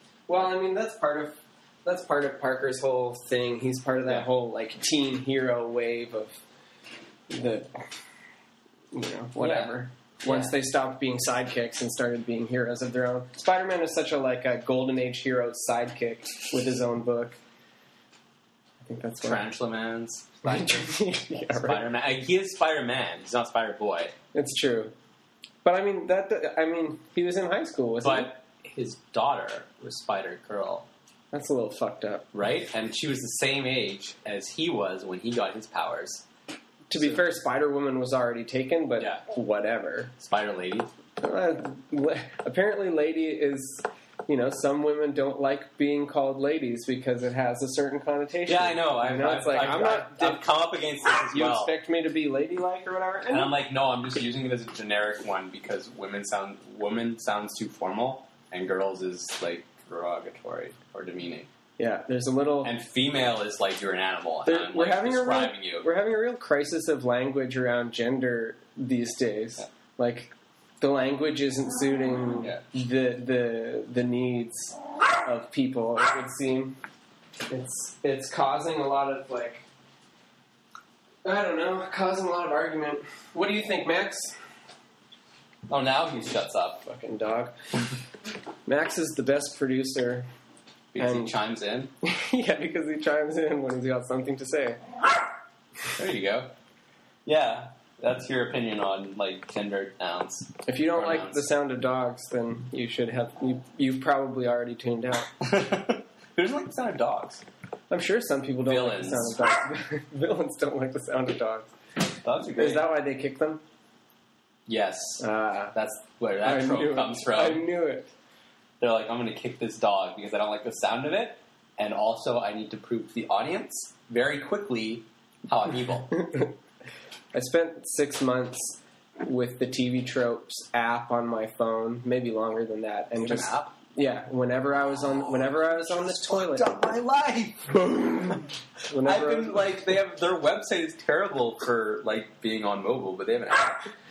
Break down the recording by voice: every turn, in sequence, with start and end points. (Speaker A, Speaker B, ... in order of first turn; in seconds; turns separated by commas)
Speaker A: 0.3-6.4, Speaker A: 7.3-7.8, Speaker A: 8.9-17.4, Speaker B: 9.4-9.7, Speaker B: 10.2-10.5, Speaker A: 18.8-19.4, Speaker B: 19.2-24.1, Speaker A: 20.4-21.8, Speaker A: 24.3-24.9, Speaker A: 25.6-28.3, Speaker B: 28.0-30.9, Speaker A: 31.3-32.3, Speaker B: 32.3-36.2, Speaker A: 36.9-40.1, Speaker B: 37.0-37.2, Speaker B: 40.2-40.9, Speaker A: 41.2-50.4, Speaker B: 48.5-51.7, Speaker A: 51.3-53.5, Speaker B: 53.3-61.5, Speaker A: 61.8-62.7, Speaker B: 62.6-65.9, Speaker A: 64.4-76.8, Speaker A: 77.5-79.6, Speaker A: 81.2-84.3, Speaker B: 85.7-86.8, Speaker A: 86.8-87.5, Speaker A: 88.7-90.3, Speaker B: 90.9-91.9, Speaker A: 91.0-91.3, Speaker A: 92.0-94.8, Speaker B: 95.9-96.5, Speaker B: 97.2-101.5, Speaker A: 100.7-105.3, Speaker B: 105.4-107.4, Speaker A: 107.9-111.7, Speaker B: 108.7-109.4, Speaker B: 112.2-112.9, Speaker A: 112.6-113.6, Speaker B: 114.7-117.6, Speaker A: 115.2-115.7, Speaker A: 116.4-118.1, Speaker B: 118.8-126.2, Speaker A: 126.2-126.5, Speaker A: 127.3-136.7, Speaker B: 133.1-133.7, Speaker B: 135.7-143.9, Speaker A: 138.9-139.8